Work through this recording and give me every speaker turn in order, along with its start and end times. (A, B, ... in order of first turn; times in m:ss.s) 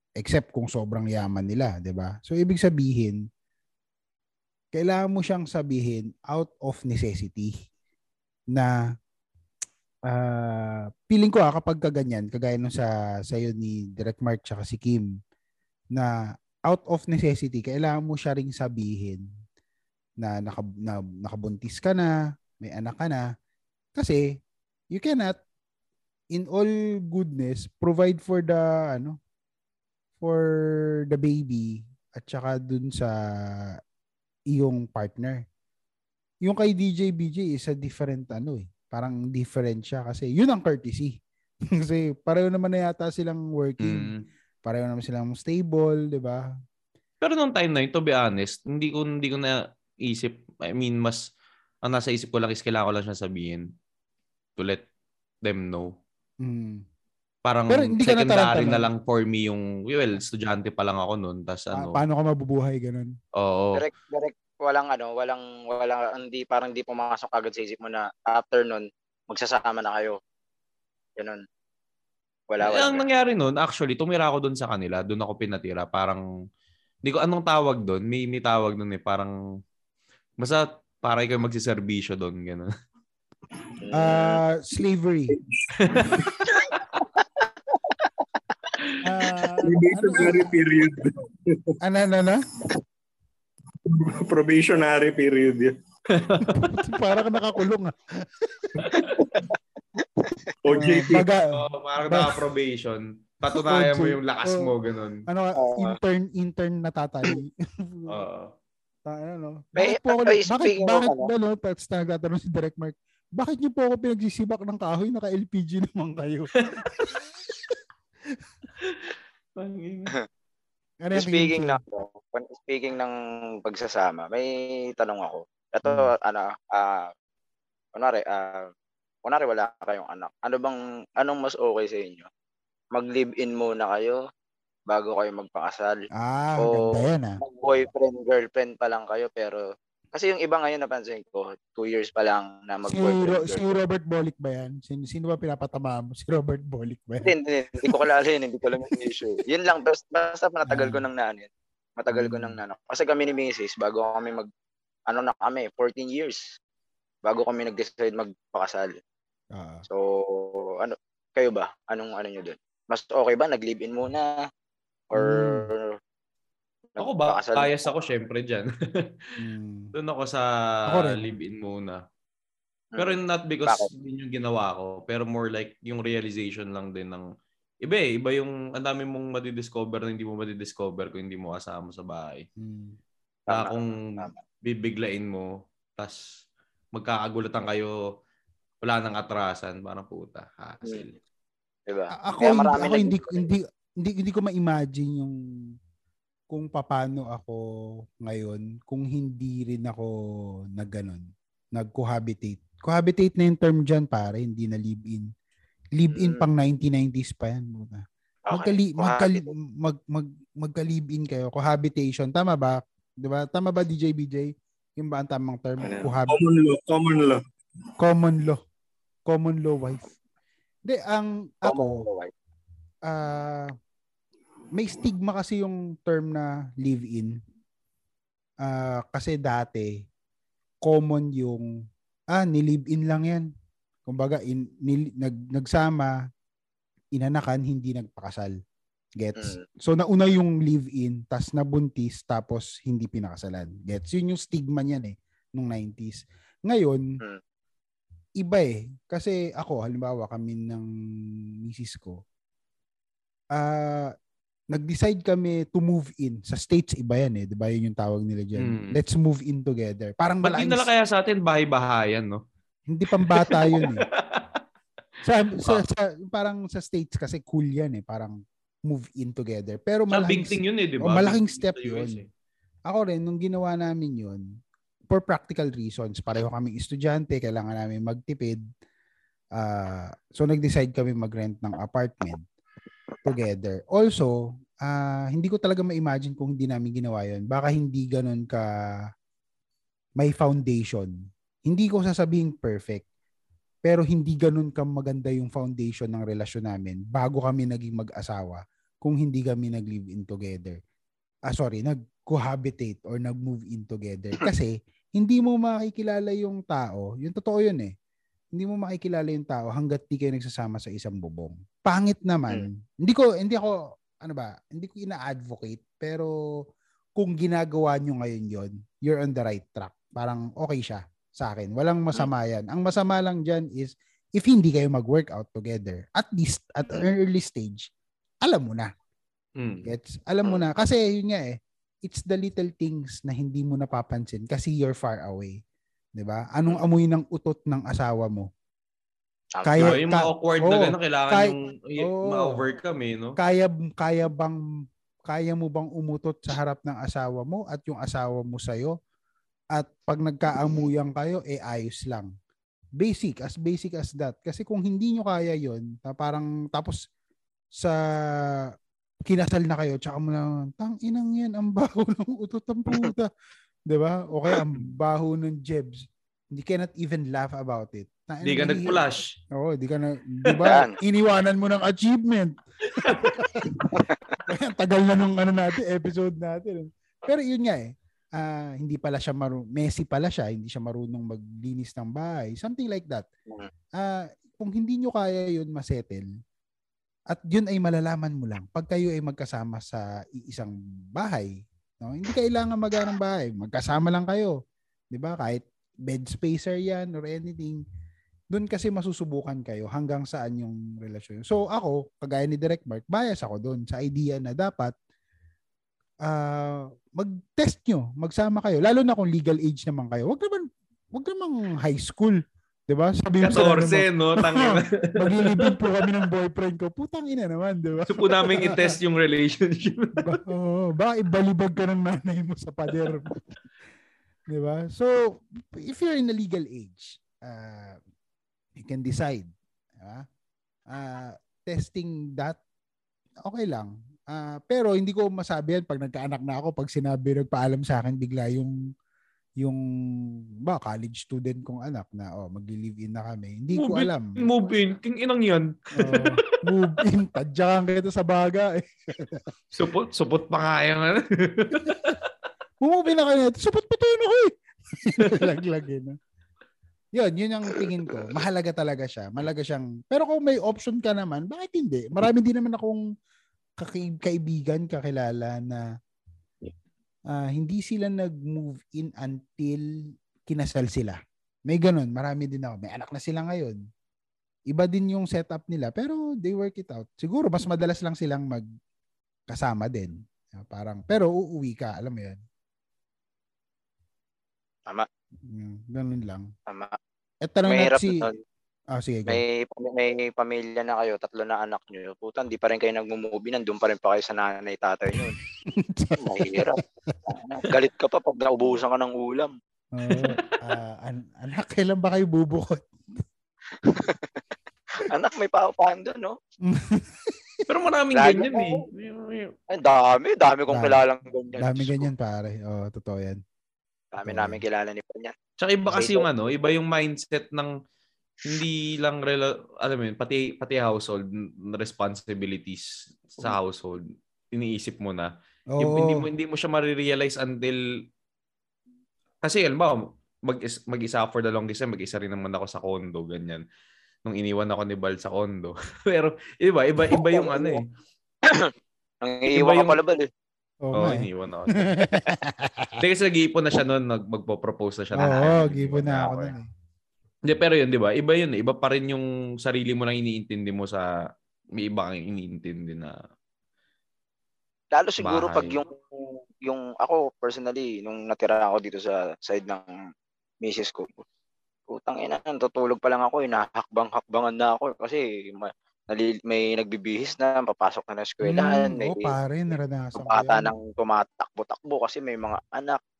0:00.2-0:03.2 A
0:04.7-0:07.5 A
0:10.1-0:15.1 A
0:16.7-0:19.2 A
0:20.2-0:23.2 A
0:24.0-0:24.2 A
0:24.9-0:25.4 A
0:26.3-0:29.2 A
0:30.2-0:33.1 A
0:34.5-0:35.4 A
0:36.4-0:41.2 A
0:41.8-0:44.1 A
0:43.8-0:44.2 B
0:44.6-0:46.4 A
0:47.2-0:51.2 B
0:51.8-0:53.6 B
0:54.6-0:54.8 B
0:55.4-0:55.9 B
0:56.4-0:56.8 A
0:57.4-1:02.0 B
0:57.7-0:58.9 A
1:01.7-1:03.1 A
1:03.4-1:03.8 B
1:03.7-1:10.2 C
1:12.5-1:13.0 C
1:12.6-1:16.2 B
1:17.0-1:19.3 B
1:20.4-1:22.7 B
1:23.8-1:24.4 C
1:24.0-1:25.3 A
1:25.8-1:26.2 B
1:29.0-1:30.5 A
1:29.6-1:31.8 D
1:31.8-1:32.4 A
1:33.8-1:35.7 D
1:36.1-1:36.6 B
1:36.5-1:38.7 A
1:38.8-1:39.1 B
1:39.3-1:40.5 C
1:40.6-1:41.3 D
1:40.7-1:42.4 A
1:41.5-1:45.2 B
1:43.5-1:44.7 A
1:45.3-1:48.2 A
1:45.6-1:46.0 C
1:48.1-1:48.5 B
1:49.0-1:57.2 A
1:49.8-1:51.3 C
1:56.6-1:56.9 B
1:58.8-2:00.1 B
2:01.0-2:01.8 A
2:01.1-2:07.1 C
2:08.0-2:08.7 C
2:09.2-2:12.3 C
2:12.9-2:14.2 C
2:14.9-2:16.0 C
2:16.2-2:17.4 A
2:16.6-2:23.6 C
2:22.9-2:27.3 A
2:27.2-2:34.5 C
2:30.7-2:31.0 A
2:32.1-2:32.6 A
2:35.1-2:36.4 C
2:37.2-2:39.0 C
2:39.5-2:39.8 A
2:39.9-2:44.3 C
2:45.1-2:45.8 C
2:45.1-2:45.6 A
2:47.0-2:47.8 C
2:47.0-2:49.3 B
2:49.4-2:49.9 A
2:49.9-2:52.0 B
2:50.9-2:51.4 A
2:52.9-2:53.9 C
2:53.0-2:57.2 B
2:57.8-3:02.4 B
3:02.6-3:03.0 A
3:03.5-3:04.3 C
3:03.5-3:04.0 B
3:04.6-3:06.2 B
3:06.9-3:07.9 B
3:08.8-3:11.2 B
3:11.9-3:13.5 C
3:12.1-3:15.3 A
3:16.5-3:17.6 A
3:18.2-3:20.1 A
3:20.7-3:25.3 A
3:26.0-3:36.4 A
3:26.1-3:26.4 C
3:28.5-3:29.5 C
3:35.8-3:37.4 D
3:38.0-3:38.6 A
3:39.3-3:40.1 A
3:40.8-3:42.0 A
3:41.6-3:42.3 C
3:43.1-3:43.7 A
3:44.7-3:47.3 A
3:48.6-3:49.9 A
3:50.8-3:51.7 A
3:52.3-3:53.4 A
3:54.0-3:56.1 A
3:57.1-3:58.5 A
3:59.2-4:07.0 A
3:59.4-3:59.6 C
4:08.4-4:10.9 A
4:11.6-4:12.2 A
4:13.5-4:14.1 A
4:14.7-4:20.9 A
4:18.6-4:19.0 B
4:20.4-4:22.4 B
4:22.9-4:24.1 A
4:23.3-4:24.6 B
4:25.2-4:32.2 A
4:30.1-4:32.2 B
4:32.9-4:34.4 A
4:35.1-4:38.6 A
4:39.6-4:42.4 A
4:43.2-4:48.7 A
4:50.2-4:51.1 A
4:51.7-4:53.0 A
4:53.8-5:00.8 A
5:01.5-5:07.9 A
5:08.5-5:16.3 A
5:17.2-5:27.9 A
5:28.4-5:28.9 A
5:29.6-5:29.9 B
5:29.8-5:35.6 A
5:36.2-5:38.5 A
5:39.6-5:39.9 C
5:39.6-5:42.6 A
5:39.8-5:43.4 B
5:43.4-5:44.6 A
5:45.3-5:48.9 A
5:49.7-5:52.3 A
5:53.0-5:57.0 A
5:59.2-6:03.3 A
6:03.9-6:09.0 A
6:08.4-6:09.3 B
6:09.5-6:13.8 A
6:10.6-6:10.9 C
6:13.0-6:13.3 B
6:13.9-6:14.3 C
6:14.4-6:23.2 A
6:24.0-6:26.3 A
6:27.3-6:34.6 A
6:35.1-6:37.8 A
6:38.5-6:44.9 A
6:46.2-6:58.9 A
6:53.4-6:56.1 B
6:58.1-7:00.4 B
7:00.2-7:03.4 A
7:04.5-7:08.0 A
7:08.8-7:10.2 A
7:10.9-7:12.6 A
7:13.4-7:18.7 A
7:20.6-7:24.4 A
7:23.7-7:26.4 B
7:26.0-7:29.5 A
7:29.7-7:32.2 B
7:32.8-7:36.2 A
7:37.1-7:43.0 A
7:43.8-7:45.8 A
7:47.3-7:49.8 A
7:50.5-7:53.8 A
7:54.7-7:58.6 A
7:59.5-8:02.4 A
8:05.5-8:06.5 A
8:06.7-8:07.0 C
8:07.4-8:08.2 A
8:07.6-8:08.4 C
8:08.9-8:09.4 A
8:09.3-8:15.4 C
8:15.7-8:17.2 A
8:16.2-8:19.5 C
8:19.9-8:22.9 A
8:20.1-8:20.4 B
8:23.8-8:24.3 C
8:25.0-8:26.4 C
8:26.6-8:27.6 A
8:27.7-8:29.5 B
8:28.1-8:28.8 C
8:29.7-8:32.1 C
8:30.7-8:31.0 A
8:31.6-8:33.4 A
8:34.1-8:35.3 C
8:34.2-8:34.6 A
8:35.6-8:37.7 B
8:35.9-8:36.2 C
8:38.4-8:44.0 B
8:44.5-8:45.3 B
8:45.7-8:46.2 A
8:45.8-8:47.8 B
8:49.4-8:53.6 B
8:54.2-8:57.8 B
8:57.1-8:57.8 C
8:59.2-9:00.3 C
8:59.5-8:59.9 B
9:00.8-9:01.2 A
9:00.9-9:02.1 B
9:01.9-9:03.0 A
9:03.0-9:06.5 B
9:05.2-9:06.7 A
9:07.4-9:11.0 B
9:11.8-9:13.1 B
9:14.9-9:16.0 C
9:15.2-9:15.8 B
9:16.6-9:19.9 C
9:20.6-9:21.2 C
9:21.9-9:29.3 C
9:28.4-9:30.7 A
9:30.2-9:33.0 C